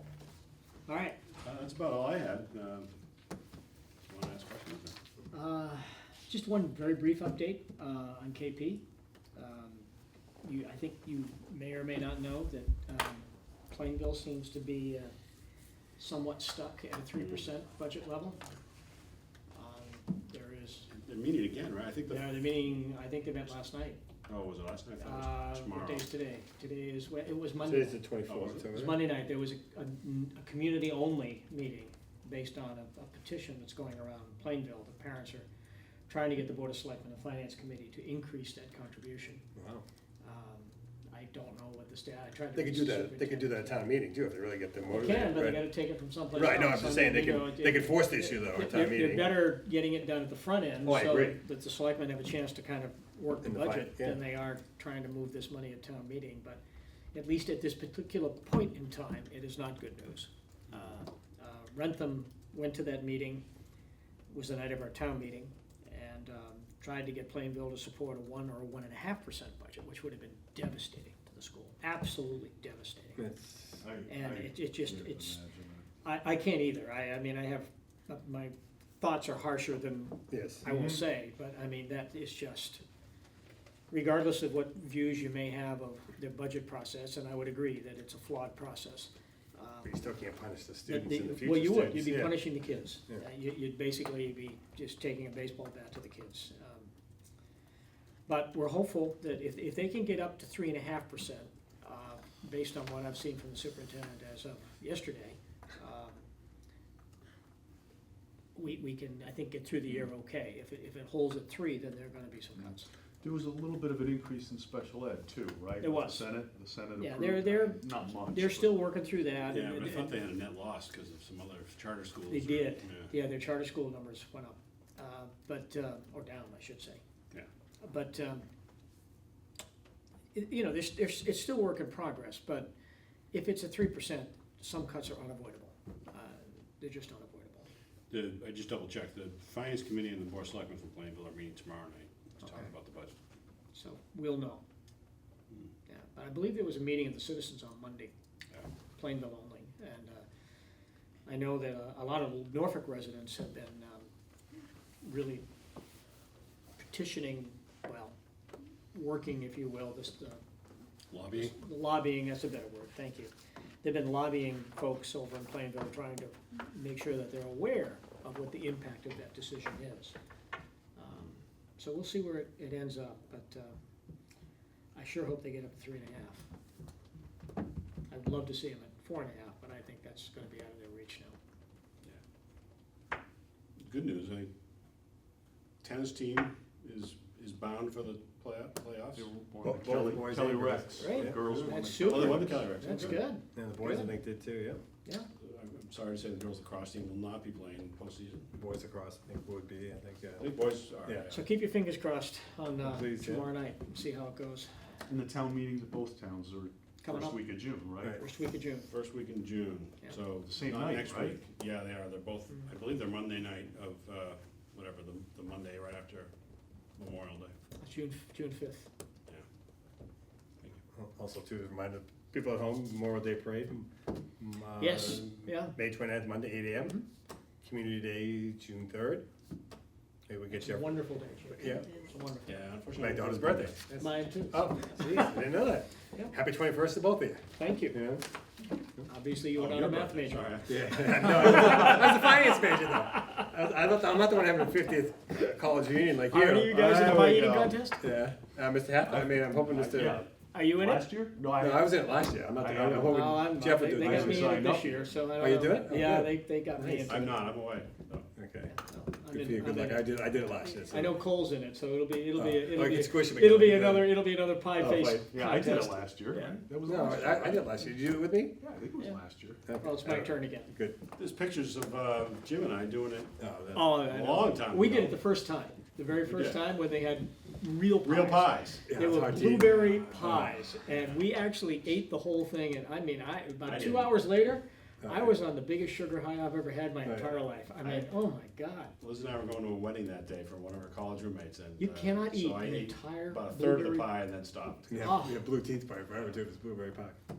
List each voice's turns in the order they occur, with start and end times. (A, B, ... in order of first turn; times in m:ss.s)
0:00.9-0:01.2 A
0:01.4-0:02.9 B
0:04.1-0:04.9 B
0:05.3-0:08.8 A
0:09.4-0:09.9 A
0:10.4-0:15.1 A
0:16.0-0:18.4 A
0:17.2-0:17.5 B
0:19.5-0:20.9 A
0:20.9-0:22.3 B
0:22.1-0:24.0 A
0:24.3-0:26.1 B
0:25.0-0:28.0 A
0:27.6-0:29.0 C
0:28.3-0:28.6 B
0:28.7-0:35.4 A
0:36.1-0:39.4 A
0:39.6-0:39.8 C
0:40.2-0:43.6 A
0:42.5-0:45.6 C
0:44.9-0:56.6 A
0:46.3-0:49.5 C
0:50.8-0:51.4 C
0:53.4-0:54.2 C
0:57.1-1:03.4 A
1:04.3-1:13.2 A
1:13.2-1:13.8 C
1:13.8-1:15.9 D
1:14.1-1:15.4 A
1:16.0-1:22.8 A
1:20.3-1:20.6 C
1:23.9-1:29.9 A
1:29.8-1:32.4 C
1:30.9-1:36.9 A
1:38.3-1:46.2 A
1:48.5-1:52.9 A
1:53.2-1:58.8 D
1:55.8-1:56.2 A
1:57.0-2:00.2 A
1:59.5-2:03.1 B
2:02.3-2:07.0 A
2:07.8-2:08.4 A
2:10.3-2:12.7 A
2:13.3-2:17.7 A
2:18.1-2:23.2 B
2:22.4-2:22.7 A
2:23.7-2:24.6 A
2:25.9-2:28.1 A
2:29.0-2:30.2 A
2:31.2-2:34.1 A
2:35.0-2:35.4 A
2:36.8-2:38.2 A
2:38.9-2:40.4 A
2:41.1-2:41.5 B
2:41.3-2:43.3 A
2:43.8-2:50.2 A
2:51.0-2:53.8 A
2:54.9-2:56.5 A
2:58.1-3:01.4 A
3:03.8-3:04.5 B
3:05.8-3:09.2 B
3:09.2-3:13.1 D
3:09.6-3:11.3 C
3:11.0-3:14.1 A
3:11.4-3:13.2 B
3:13.5-3:14.8 C
3:15.4-3:18.5 B
3:18.6-3:21.3 C
3:20.4-3:21.5 B
3:21.3-3:24.7 A
3:22.8-3:23.5 C
3:25.1-3:28.2 D
3:27.0-3:27.4 A
3:28.1-3:28.9 A
3:28.9-3:36.3 B
3:30.4-3:31.4 D
3:37.0-3:37.6 B
3:37.8-3:38.9 A
3:40.9-3:47.0 C
3:44.8-3:45.7 A
3:47.6-3:49.2 C
3:50.3-3:50.8 C
3:50.5-3:52.6 A
3:52.4-3:53.7 B
3:52.9-3:58.2 C
3:54.0-3:55.3 A
3:57.6-3:58.0 A
3:59.0-4:02.3 A
3:59.5-4:01.4 B
4:00.7-4:07.0 C
4:03.2-4:03.4 A
4:06.3-4:08.0 A
4:06.7-4:07.9 D
4:08.0-4:10.2 C
4:09.0-4:15.0 D
4:09.7-4:10.1 B
4:10.5-4:11.1 A
4:11.5-4:14.7 C
4:13.0-4:17.4 A
4:15.4-4:17.3 C
4:17.1-4:18.3 B
4:18.4-4:18.7 C
4:18.6-4:20.2 A
4:19.3-4:21.2 C
4:20.8-4:26.1 A
4:22.3-4:24.2 C
4:24.8-4:27.8 D
4:26.8-4:28.6 C
4:28.6-4:29.6 D
4:29.6-4:31.0 C
4:29.8-4:30.7 A
4:31.2-4:33.3 B
4:33.4-4:34.0 C
4:33.7-4:48.9 A
4:33.9-4:35.2 B
4:36.2-4:36.6 B
4:38.0-4:38.8 B
4:38.9-4:40.3 C
4:40.2-4:41.2 B
4:43.6-4:44.1 B
4:45.0-4:45.4 C
4:47.0-4:47.4 C
4:47.8-4:48.1 B
4:49.0-4:55.1 B
4:51.8-4:54.1 A
4:54.9-4:57.2 C
4:55.0-4:55.4 A